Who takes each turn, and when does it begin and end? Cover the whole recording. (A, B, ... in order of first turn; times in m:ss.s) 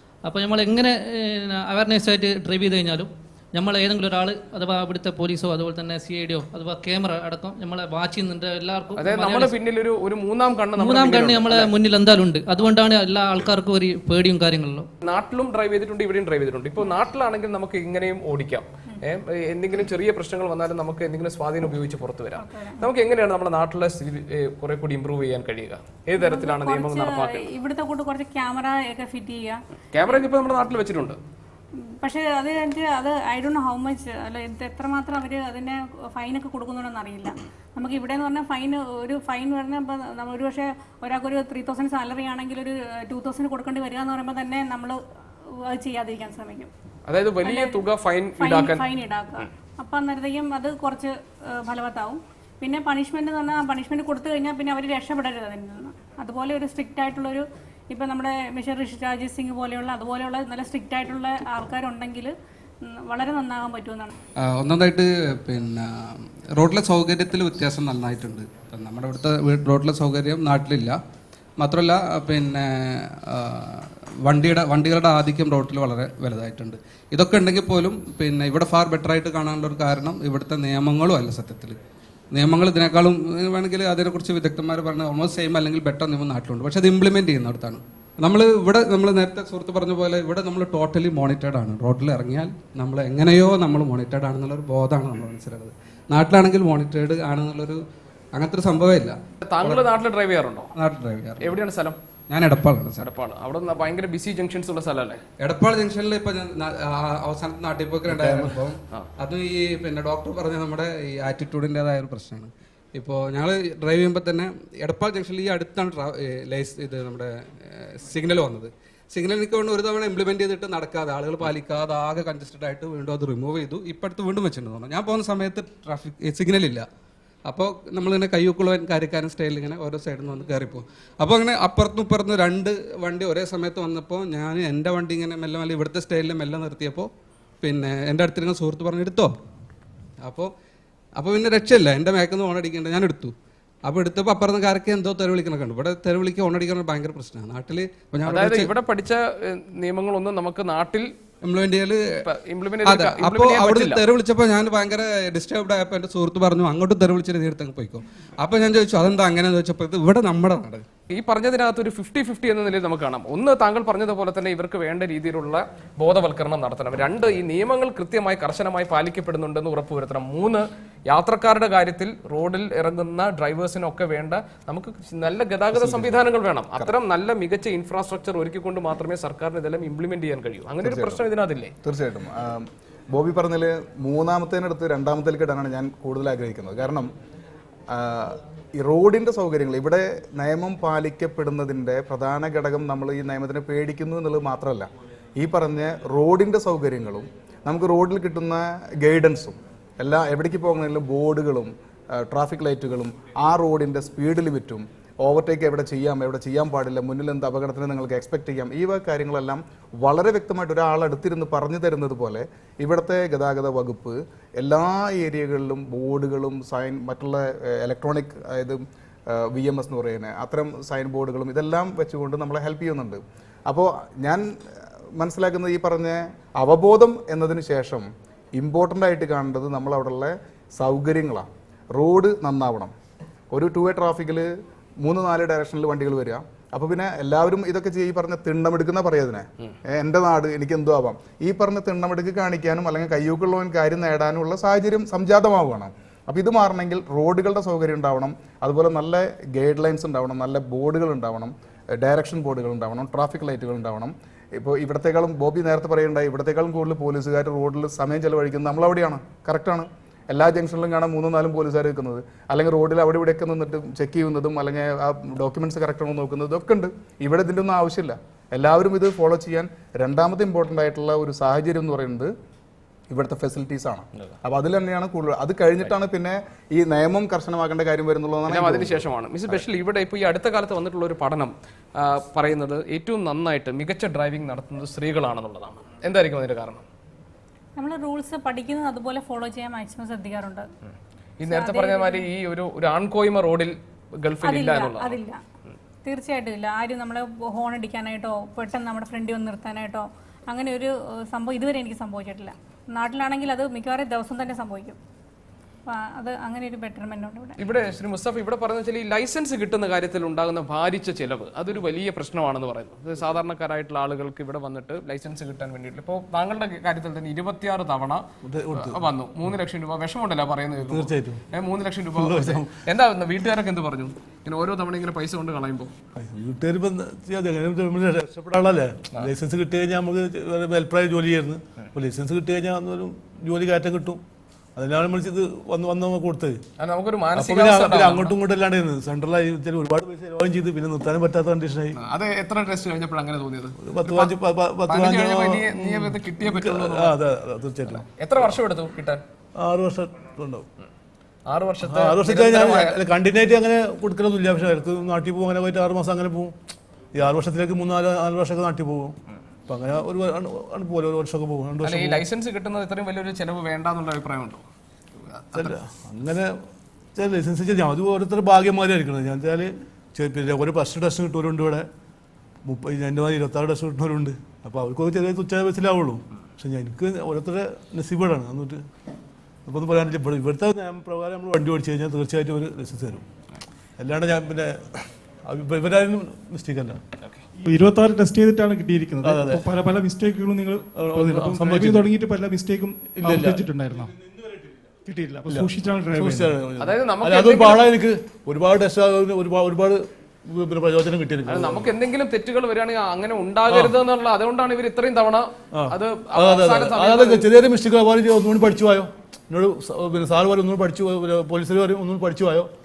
0:00.3-0:09.6 A
0:09.0-0:11.7 B
0:10.8-0:14.9 A
0:15.0-0:27.4 B
0:22.4-0:22.8 C
0:26.2-0:29.6 C
0:29.9-0:31.2 B
0:32.0-0:45.0 C
0:45.5-0:46.7 C
0:47.1-0:48.8 B
0:47.4-0:47.8 C
0:48.4-1:02.3 C
1:02.8-1:04.1 C
1:04.4-1:11.0 D
1:11.6-1:21.8 D
1:22.3-1:37.8 D
1:38.3-1:39.8 D
1:39.4-1:40.7 B
1:40.8-1:41.6 D
1:41.4-1:42.0 B
1:42.3-1:43.1 D
1:43.0-1:45.2 B
1:45.4-2:06.9 D
1:48.1-1:48.6 E
2:07.5-2:17.1 D
2:17.6-2:19.3 D
2:20.2-2:20.5 D
2:21.2-2:23.3 D
2:23.9-2:28.7 D
2:28.3-2:31.1 B
2:31.4-2:32.0 D
2:32.2-2:34.0 B
2:32.8-2:40.9 D
2:41.1-3:01.7 B
2:55.7-2:56.2 F
3:00.8-3:01.2 F
3:01.8-3:07.1 F
3:07.9-3:52.9 F
3:53.5-4:32.3 F
4:33.1-4:39.6 F
4:38.5-4:46.9 B
4:47.8-4:50.7 C
4:51.4-4:55.2 B
4:51.5-4:52.2 C
4:54.4-4:55.4 C
4:56.0-5:05.0 C
5:05.9-5:07.6 C
5:07.6-5:25.9 B
5:18.4-5:19.0 E
5:20.9-5:21.4 E
5:22.2-5:22.8 E
5:26.2-5:34.2 E
5:34.8-5:36.6 E
5:36.8-5:38.4 B
5:37.4-5:42.0 E
5:42.0-5:44.3 B
5:43.8-5:48.1 E
5:44.9-5:47.2 B
5:47.9-5:49.2 B
5:49.6-5:50.7 E
5:51.5-5:53.0 B
5:51.8-5:56.5 E
5:57.2-5:59.2 E
5:59.7-6:02.2 E
6:01.8-6:04.6 B
6:05.5-6:06.6 E
6:07.2-6:11.9 E
6:12.7-6:18.8 E
6:19.7-6:23.2 E
6:24.0-6:27.0 E
6:27.6-6:34.1 G
6:29.2-6:29.7 E
6:30.9-6:32.1 E
6:33.1-6:33.6 E
6:35.0-6:36.6 G
6:35.5-6:41.9 E
6:36.8-6:37.9 B
6:41.5-6:47.5 B
6:43.7-6:44.0 E
6:45.8-6:52.7 E